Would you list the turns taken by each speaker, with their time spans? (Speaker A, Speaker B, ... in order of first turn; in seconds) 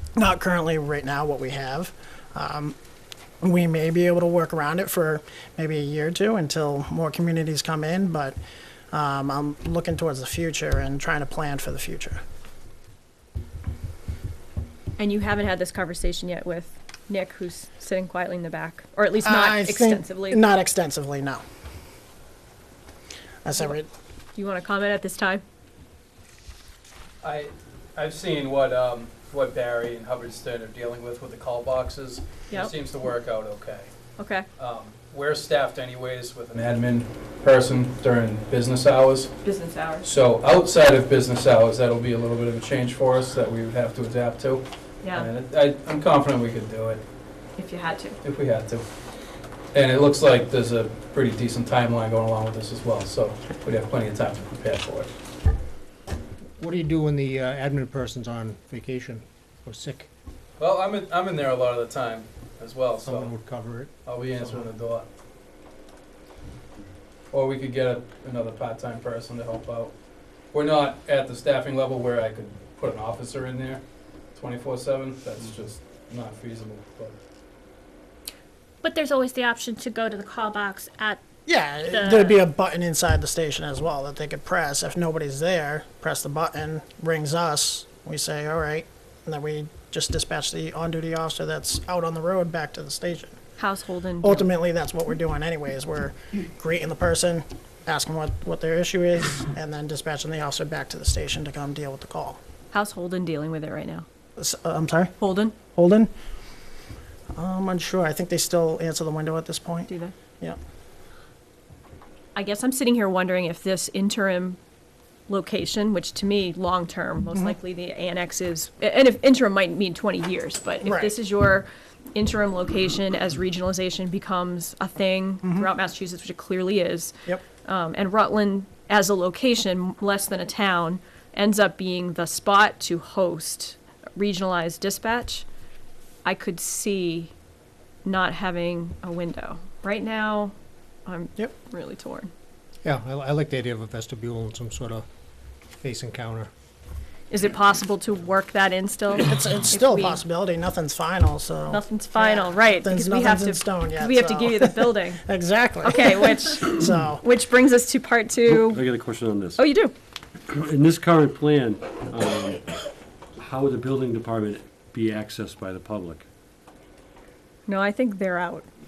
Speaker A: 0.1-2.8, 3.4-8.4, 8.9-12.2, 19.2-21.4, 23.4-23.9, 81.5-93.4, 94.2-102.4, 104.4-105.1, 105.7-106.1, 107.3-109.9, 120.8-121.1, 125.4-125.7, 149.2-157.2
Speaker B: 15.0-20.4, 24.4-25.4, 34.2-34.5, 39.4-40.1, 45.0-45.3, 47.6-48.2, 93.6-94.5, 102.7-104.0, 105.2-105.5, 109.9-110.1, 112.3-114.6, 115.3-135.4, 136.2-137.3, 138.0-140.5, 141.1-142.3, 147.3-150.2, 151.7-155.2, 155.8-158.8, 159.5-159.9, 167.7-168.7
Speaker C: 27.2-33.9, 34.6-39.3, 40.0-47.0, 48.2-48.8, 49.7-55.1, 60.6-63.3, 64.0-65.1, 67.3-69.9, 70.5-73.8, 74.3-77.2
Speaker D: 56.6-60.1, 63.0-64.6, 142.8-145.1, 145.8-146.5
Speaker E: 78.8-81.2, 81.9-82.4
Speaker F: 158.5-159.6, 160.5-162.6, 163.4-166.2